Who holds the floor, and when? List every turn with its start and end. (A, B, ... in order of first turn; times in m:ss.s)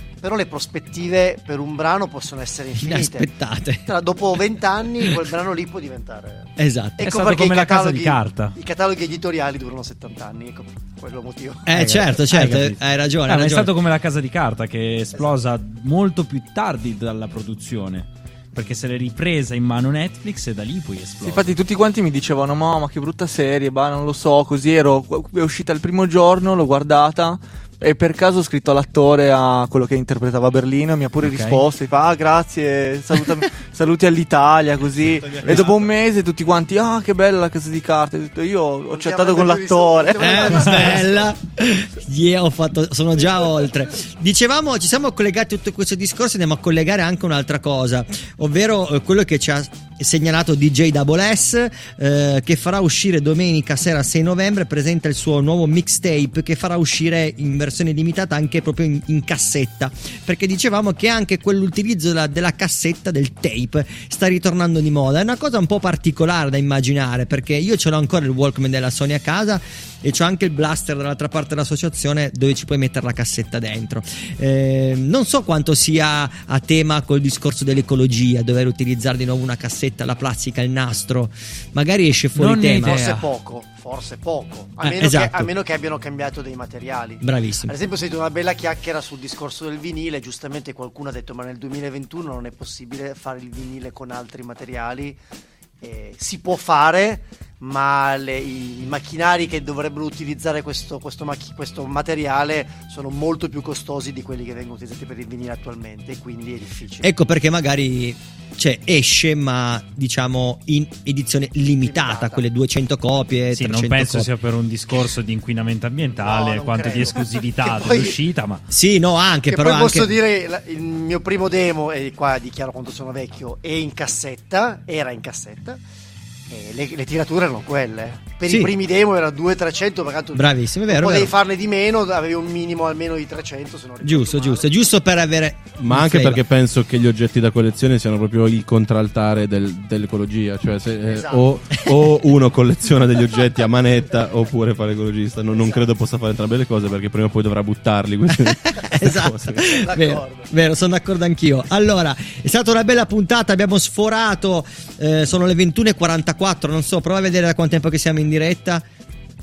0:00.2-0:03.3 A
0:02.8-0:03.9 B
0:03.8-0:11.6 A
0:06.6-0:07.0 B
0:07.0-0:08.5 C
0:11.6-0:13.7 B
0:11.7-0:21.5 C
0:21.2-0:40.5 D
0:31.2-0:31.6 C
0:35.0-0:35.9 E
0:38.9-0:41.1 A
0:40.2-1:23.0 B
0:40.5-0:40.9 C
1:22.4-1:23.3 C
1:22.8-1:35.2 A
1:24.8-1:25.5 B
1:27.2-1:27.7 B
1:35.8-1:47.1 A
1:47.0-1:54.3 B
1:51.8-1:52.4 A
1:53.5-1:58.6 C
1:56.2-1:58.1 A
1:58.7-2:00.1 B
1:59.5-2:05.8 A
2:06.5-2:14.7 A
2:08.4-2:08.7 B
2:10.3-2:11.3 B
2:14.0-2:16.4 B
2:15.8-2:29.7 E
2:21.1-2:21.4 A
2:21.7-2:22.0 B
2:28.3-2:38.8 B
2:29.7-2:30.5 A